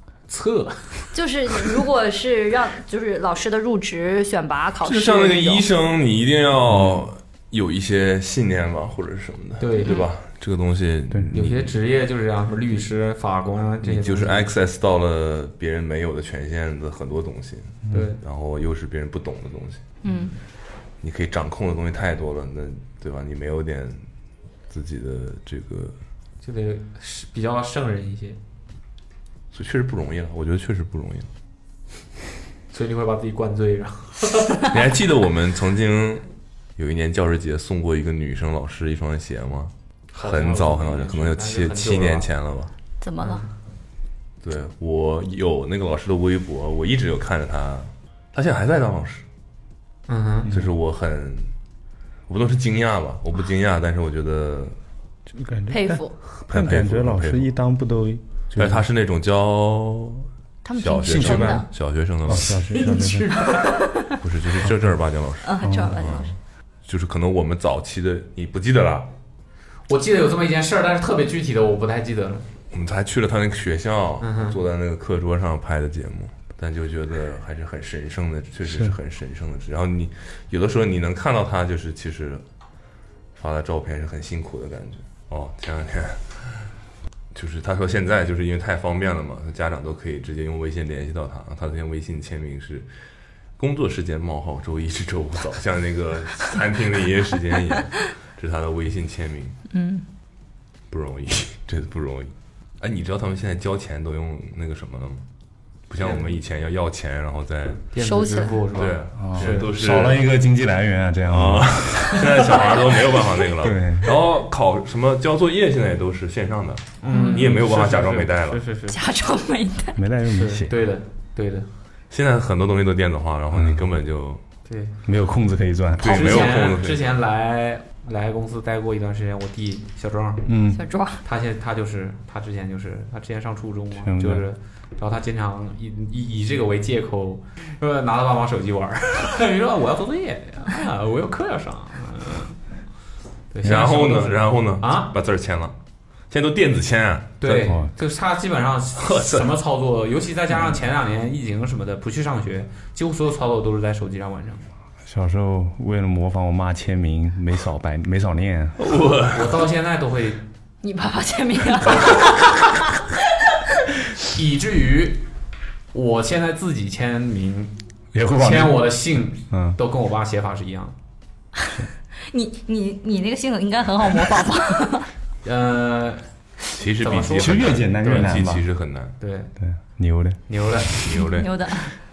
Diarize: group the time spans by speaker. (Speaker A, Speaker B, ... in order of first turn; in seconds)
Speaker A: 0.3-1.1, 9.6-10.0, 11.3-14.5, 17.9-18.2, 20.1-20.3, 26.4-28.4, 32.7-34.6, 40.1-42.3, 43.2-43.5, 50.1-50.5, 62.4-63.8, 69.9-72.5, 74.2-74.6, 106.0-106.2, 107.9-109.7, 117.0-119.0, 120.3-121.7, 124.7-124.9, 126.0-130.5, 131.2-142.6, 143.5-145.1, 147.4-154.7, 159.3-160.4, 164.3-165.2, 165.9-167.7, 168.3-170.9, 175.4-176.2, 176.9-178.3, 179.2-179.5, 180.5-181.0
Speaker B: 1.1-5.7, 9.8-10.1, 20.0-20.3, 43.0-43.5, 55.7-56.1, 60.6-61.7, 65.4-66.3, 99.7-100.0, 108.0-108.7, 117.1-117.5, 118.9-120.0, 130.7-131.2, 160.8-163.0, 172.3-175.1, 181.3-181.9
Speaker C: 4.8-11.7, 13.8-19.8, 21.0-24.0, 24.7-26.0, 29.5-31.3, 34.7-42.7, 44.4-49.2, 50.5-51.5, 52.3-54.7, 56.4-57.5, 58.5-60.3, 60.8-62.6, 64.2-66.3, 66.8-69.1, 72.7-82.4, 83.3-86.7, 87.3-92.9, 93.6-99.6, 100.9-105.2, 105.9-107.9, 108.7-110.2, 111.3-118.6, 122.1-124.4, 126.0-127.0, 143.6-145.7, 146.3-147.8, 149.0-149.5, 158.8-159.6, 176.7-179.1, 181.0-181.5
Speaker D: 6.7-7.0, 55.3-58.8, 61.0-61.6, 62.2-63.3, 65.6-66.0, 109.2-112.2, 113.6-114.1, 120.0-120.7, 123.5-123.8, 125.0-126.4, 130.4-130.8, 134.1-134.4, 155.0-158.9, 168.1-169.0, 169.5-169.8, 177.4-178.6, 179.6-180.4